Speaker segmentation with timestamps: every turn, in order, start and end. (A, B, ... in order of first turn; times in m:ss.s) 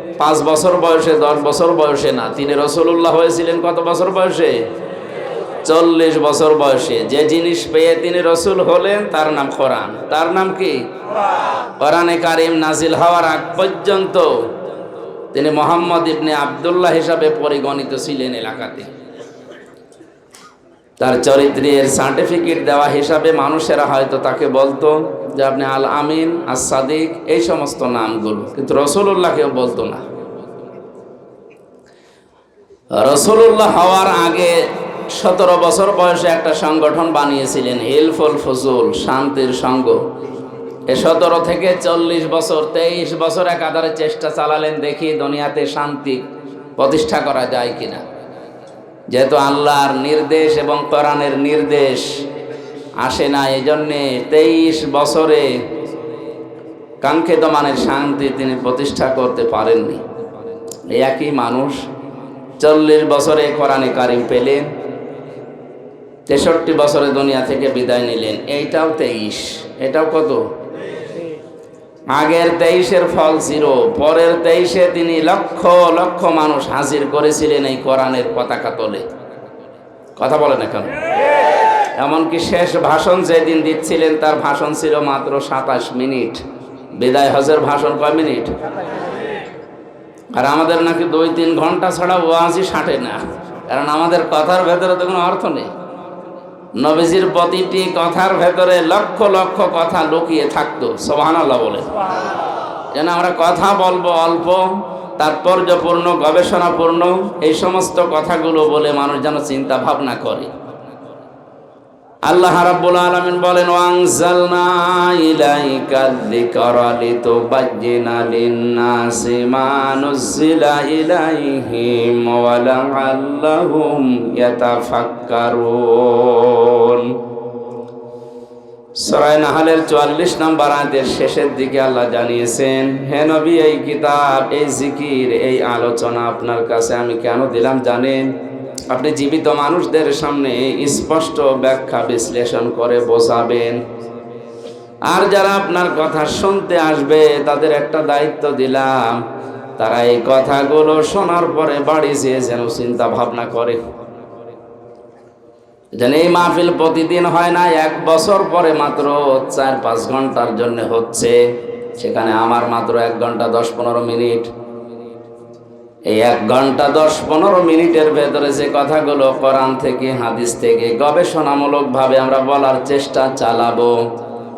0:00.2-0:04.6 A
0:05.6-0:10.8 A
0:11.8-0:14.3 A
0:15.3-0:18.9 A
0:21.0-0:30.0 A
0:32.9-0:34.6 A
0:35.1-0:40.0 A
0:40.9-0:46.2 A
0:46.8-0:48.0 A
0:49.1-0:52.1 A
0:53.0-0:55.5 A
0:57.0-1:00.0 A
1:00.9-1:01.8 A
1:02.6-1:04.7 A
1:06.3-1:10.4 A
1:12.1-1:19.0 A
1:20.2-1:20.9 A
1:22.0-1:26.4 A
1:27.0-1:28.5 A
1:30.3-1:35.7 A
1:36.8-1:41.9 A
1:42.9-1:44.7 A
1:45.2-1:50.5 A
1:52.2-2:07.1 A
2:09.0-2:18.3 A
2:18.9-2:23.8 A
2:25.1-2:29.2 A
2:29.8-2:33.8 A
2:36.0-2:41.4 A
2:41.9-2:44.5 A
2:46.1-2:53.9 A